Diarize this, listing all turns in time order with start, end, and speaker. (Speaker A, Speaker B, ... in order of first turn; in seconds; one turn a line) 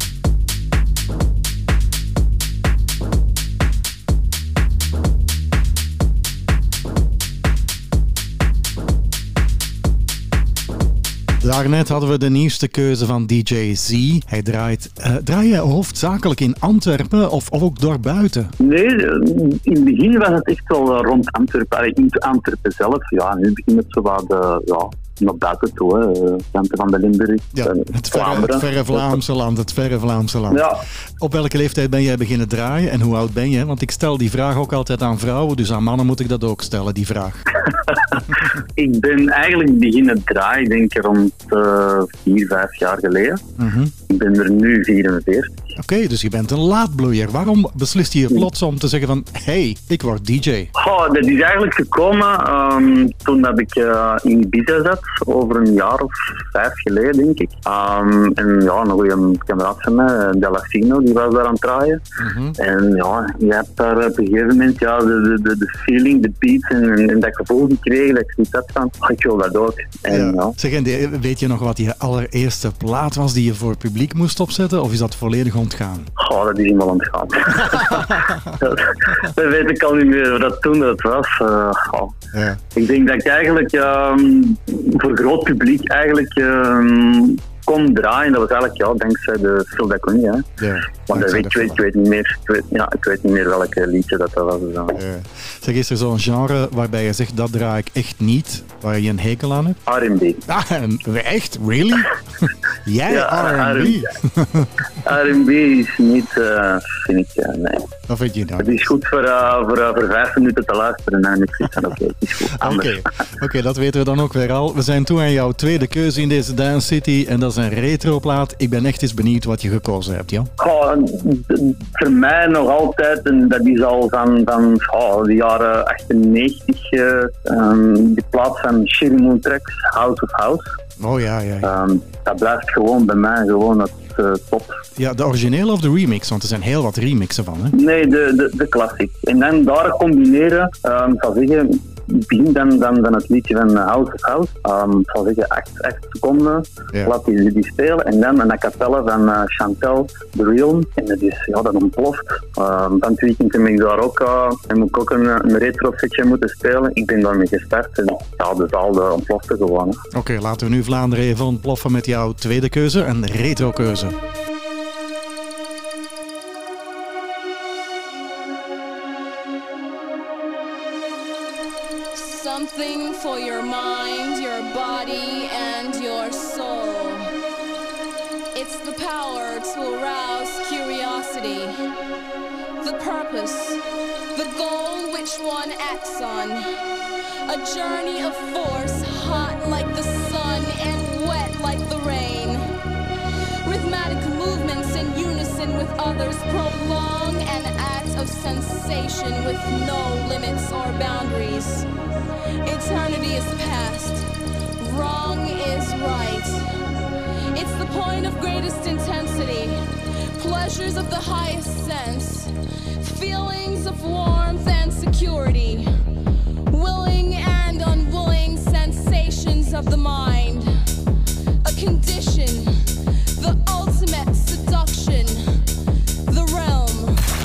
Speaker A: 11.4-18.5
Speaker B: 18.6-29.2
Speaker A: 27.5-30.7
Speaker B: 30.5-30.8
Speaker A: 31.2-37.4
Speaker B: 38.8-43.4
Speaker A: 43.6-43.9
Speaker B: 44.1-45.5
Speaker A: 45.8-50.7
Speaker B: 50.8-62.0
Speaker A: 62.2-62.6
Speaker B: 62.6-70.5
Speaker A: 70.1-76.1
Speaker B: 76.2-78.1
Speaker A: 77.6-78.6
Speaker B: 78.6-82.2
Speaker A: 82.3-82.6
Speaker B: 82.8-90.5
Speaker A: 90.6-91.8
Speaker B: 91.1-95.0
Speaker A: 95.0-99.8
Speaker B: 99.9-100.4
Speaker A: 100.5-104.7
Speaker B: 103.1-104.0
Speaker B: 105.1-107.9
Speaker A: 108.1-108.9
Speaker B: 108.6-113.0
Speaker A: 112.6-120.5
Speaker B: 120.6-130.7
Speaker A: 131.0-131.7
Speaker B: 131.6-134.8
Speaker A: 135.0-137.8
Speaker B: 137.8-160.0
Speaker A: 160.1-164.2
Speaker C: 172.2-177.3
Speaker C: 178.6-181.8
Speaker C: 182.8-183.8
Speaker C: 184.3-186.6
Speaker C: 187.5-192.7
Speaker C: 193.7-201.9
Speaker C: 202.6-204.2
Speaker C: 204.8-206.6
Speaker C: 207.5-209.8
Speaker C: 210.3-212.5
Speaker C: 213.0-215.9
Speaker C: 216.7-220.7
Speaker C: 221.6-222.8
Speaker C: 223.4-225.4
Speaker C: 226.3-227.2